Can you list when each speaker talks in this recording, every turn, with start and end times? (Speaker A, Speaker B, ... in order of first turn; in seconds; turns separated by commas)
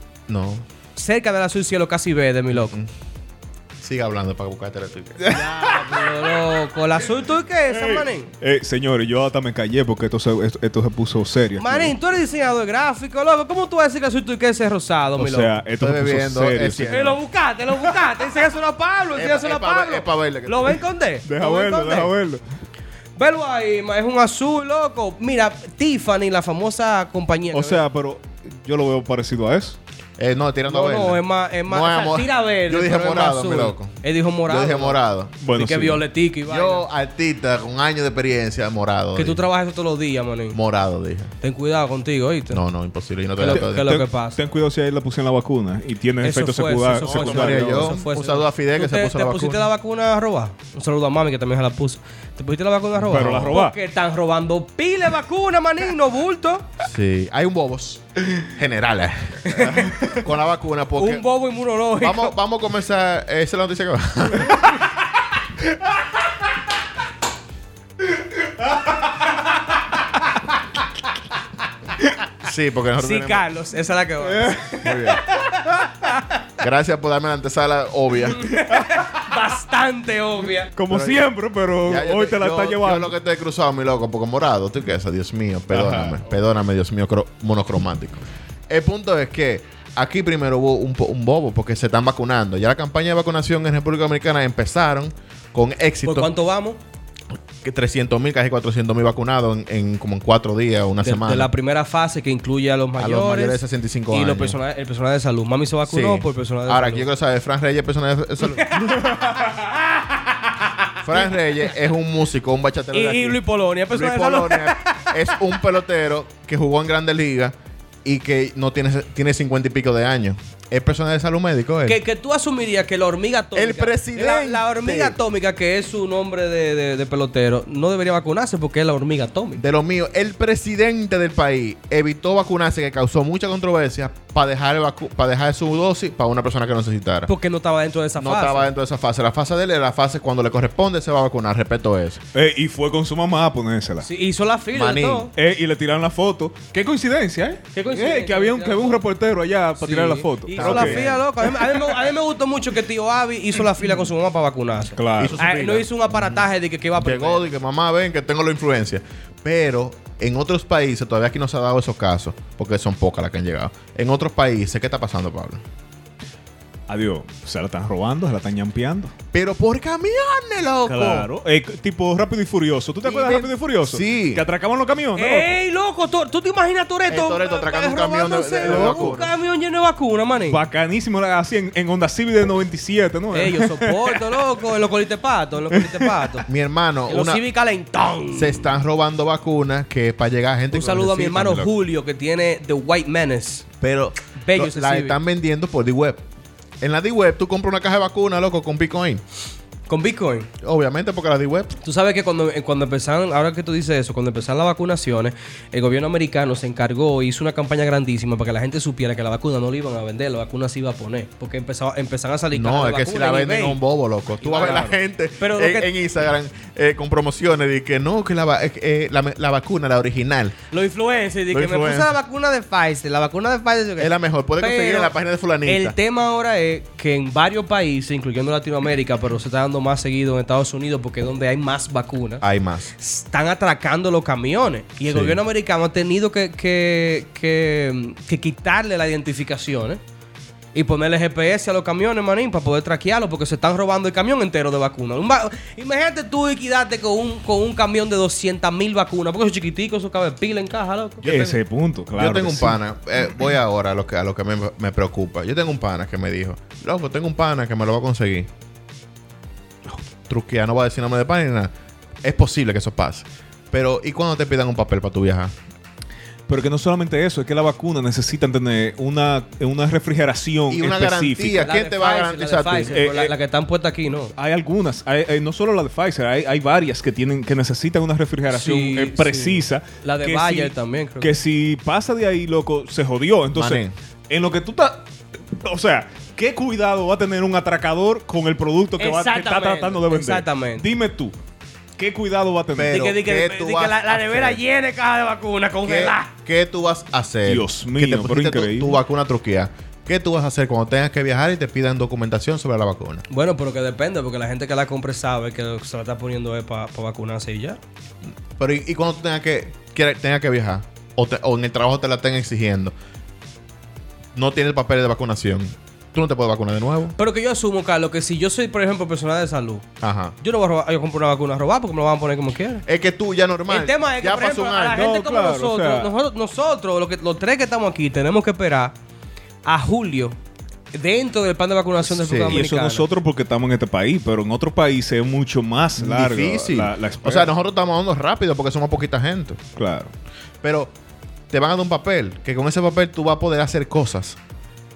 Speaker A: 0.3-0.6, Speaker B: 0.9-2.8, Speaker A: 2.5-2.9, Speaker A: 3.8-5.3, Speaker C: 5.2-6.3, Speaker B: 5.3-8.3, Speaker C: 7.7-11.9, Speaker B: 11.6-15.5, Speaker C: 15.2-17.2, Speaker A: 15.8-17.2, Speaker B: 16.9-22.1, Speaker A: 19.1-20.8, Speaker C: 21.2-22.4, Speaker B: 23.2-27.8, Speaker C: 27.5-29.8, Speaker A: 30.2-33.9, Speaker B: 30.7-35.0, Speaker A: 34.5-35.3, Speaker C: 35.4-36.0, Speaker B: 35.5-36.8, Speaker A: 36.5-39.4, Speaker B: 39.1-40.6, Speaker A: 40.5-41.3, Speaker B: 41.4-42.6, Speaker A: 42.5-44.0, Speaker B: 43.4-44.4, Speaker C: 43.5-48.0, Speaker B: 46.2-56.6, Speaker A: 47.0-49.7, Speaker C: 53.0-53.8, Speaker A: 53.2-53.4, Speaker A: 56.8-61.2, Speaker B: 59.4-60.1, Speaker B: 61.0-62.3, Speaker A: 62.0-64.8, Speaker A: 72.4-73.4, Speaker B: 73.0-76.4, Speaker C: 74.2-75.2, Speaker A: 74.8-75.2, Speaker A: 76.6-78.5, Speaker B: 78.3-80.7, Speaker C: 78.7-79.2, Speaker C: 80.8-83.1, Speaker A: 80.9-81.2, Speaker A: 81.8-96.3, Speaker C: 85.7-86.2, Speaker B: 96.0-96.8, Speaker A: 97.6-101.5, Speaker B: 101.0-107.1, Speaker A: 103.0-104.6, Speaker A: 105.8-108.9, Speaker B: 108.5-109.6, Speaker C: 108.9-109.6, Speaker A: 111.0-113.4, Speaker B: 112.9-115.3, Speaker A: 113.9-122.0, Speaker B: 121.8-129.6, Speaker A: 123.5-125.2, Speaker A: 129.6-137.3, Speaker B: 137.3-138.7, Speaker A: 138.2-142.2, Speaker C: 142.3-144.1, Speaker B: 144.0-145.3, Speaker A: 144.7-145.3, Speaker C: 145.3-151.9, Speaker B: 147.7-149.0, Speaker B: 149.8-157.5, Speaker A: 150.5-151.2, Speaker C: 154.9-155.4, Speaker A: 155.2-156.4, Speaker A: 157.0-165.6, Speaker C: 166.9-169.1, Speaker A: 169.3-171.3, Speaker C: 170.9-175.5, Speaker A: 173.0-174.4, Speaker B: 175.2-180.6, Speaker A: 177.1-179.3, Speaker C: 178.6-179.2, Speaker C: 180.5-184.4, Speaker B: 183.3-186.4, Speaker C: 185.7-186.1, Speaker A: 186.4-187.4, Speaker B: 187.1-188.8, Speaker A: 188.3-191.7, Speaker B: 190.7-193.7, Speaker A: 193.8-196.2, Speaker B: 194.4-195.2, Speaker A: 196.8-199.2, Speaker B: 199.9-200.5, Speaker A: 200.6-201.8, Speaker B: 201.8-213.8, Speaker A: 212.5-220.6, Speaker B: 214.4-215.9, Speaker B: 220.7-225.1, Speaker A: 221.5-222.1, Speaker A: 224.0-225.9, Speaker B: 225.6-232.4, Speaker A: 232.4-232.9, Speaker B: 233.0-240.0, Speaker A: 235.1-235.4, Speaker B: 240.7-251.5, Speaker C: 251.2-252.8, Speaker A: 252.2-258.5, Speaker A: 260.3-261.7, Speaker A: 262.2-265.5, Speaker C: 266.5-271.7, Speaker A: 270.7-273.0, Speaker B: 271.6-274.3, Speaker C: 272.9-273.3, Speaker C: 274.4-285.0, Speaker B: 278.5-281.3, Speaker A: 283.5-283.9, Speaker C: 285.6-291.3, Speaker B: 289.0-290.9, Speaker C: 292.0-293.0, Speaker A: 292.7-294.6, Speaker B: 292.9-296.3, Speaker A: 295.8-303.2, Speaker C: 297.4-299.0, Speaker B: 303.3-307.8, Speaker A: 308.6-312.9, Speaker A: 314.3-317.1, Speaker B: 317.2-319.8, Speaker A: 320.0-320.4, Speaker B: 320.4-322.8, Speaker A: 322.9-325.1, Speaker B: 323.7-328.9, Speaker C: 324.9-326.1, Speaker B: 329.6-330.4, Speaker B: 330.9-333.1, Speaker A: 332.1-332.6, Speaker C: 332.5-337.5, Speaker A: 336.0-339.6, Speaker C: 339.8-340.1, Speaker A: 340.6-340.9, Speaker A: 341.5-344.4